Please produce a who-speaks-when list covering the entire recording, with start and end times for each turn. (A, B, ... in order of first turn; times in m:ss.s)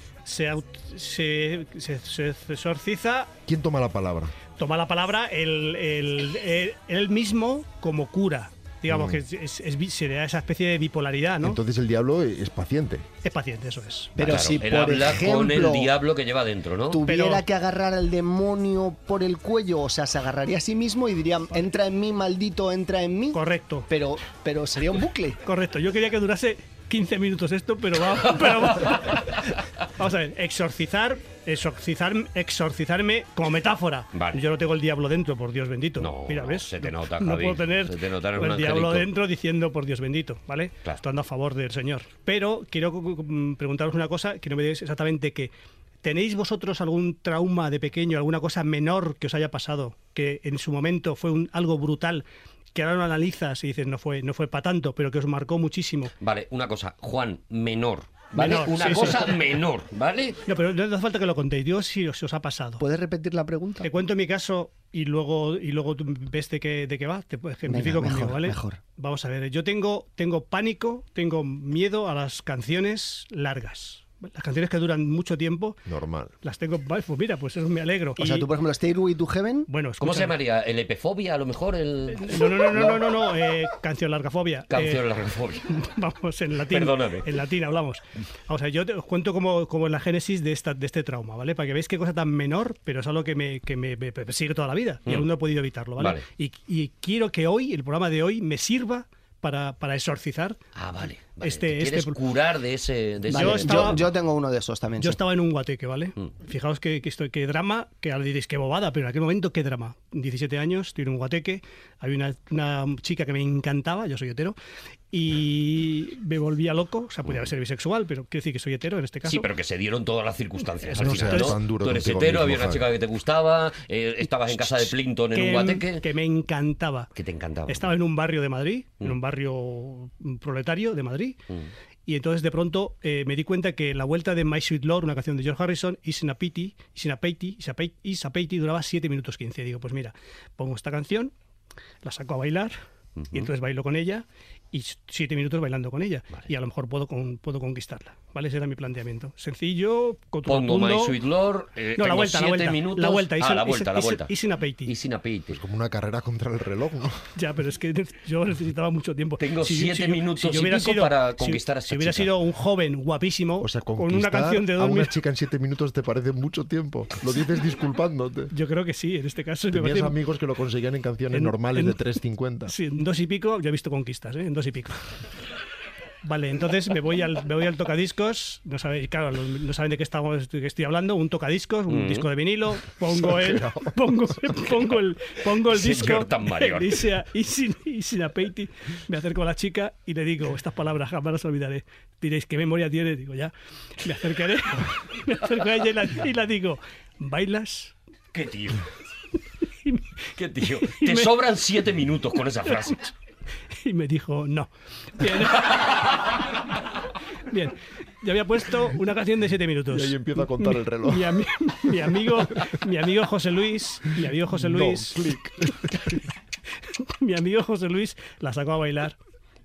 0:00.3-0:03.3 A
0:03.5-0:04.4 B
0:04.6-0:11.6 A
0:08.9-0:09.2 B
0:11.4-0:13.1 B
0:13.2-0:14.1 A
0:14.2-0:15.9 C
0:14.2-0:17.0 D
0:16.9-0:25.4 C
0:17.0-0:17.4 A
0:23.3-0:23.9 A
0:25.4-0:45.5 A
0:34.1-0:34.4 D
0:36.0-0:39.1 D
0:46.0-0:56.1 A
0:56.2-1:00.4 D
0:58.3-0:59.4 A
1:00.5-1:02.8 A
1:02.8-1:03.9 C
1:03.8-1:15.8 A
1:07.7-1:08.8 C
1:15.9-1:16.3 B
1:16.4-1:18.5 A
1:18.2-1:19.7 C
1:19.7-1:20.4 A
1:20.0-1:22.6 D
1:22.1-1:25.1 A
1:24.7-1:25.8 D
1:25.7-1:40.6 A
1:26.7-1:27.3 D
1:36.0-1:36.2 D
1:40.8-1:44.1 D
1:41.4-1:42.2 A
1:43.3-1:45.2 C
1:43.3-1:44.1 A
1:45.0-1:54.6 A
1:55.1-1:59.5 A
1:59.2-2:06.0 D
2:00.8-2:01.6 A
2:01.0-2:02.9 B
2:04.5-2:07.1 A
2:07.2-2:07.9 D
2:07.7-2:11.4 A
2:12.1-2:21.3 A
2:22.0-2:22.8 A
2:23.2-2:23.5 D
2:23.3-2:31.2 A
2:30.5-2:34.3 D
2:32.0-2:34.9 A
2:34.8-2:35.6 D
2:35.5-2:37.2 B
2:37.4-2:45.2 A
2:39.4-2:42.3 D
2:43.6-2:48.5 B
2:48.5-2:50.2 A
2:49.7-2:52.7 B
2:51.3-2:52.0 A
2:52.7-2:55.0 A
2:56.2-3:13.5 A
3:01.9-3:02.3 D
3:03.2-3:03.9 B
3:05.7-3:07.1 D
3:14.0-3:18.0 A
3:18.3-3:18.8 D
3:20.3-3:23.1 D
3:20.8-3:21.3 A
3:23.8-3:26.3 A
3:27.5-3:35.6 A
3:29.9-3:31.3 B
3:34.5-3:36.2 B
3:37.0-3:39.2 A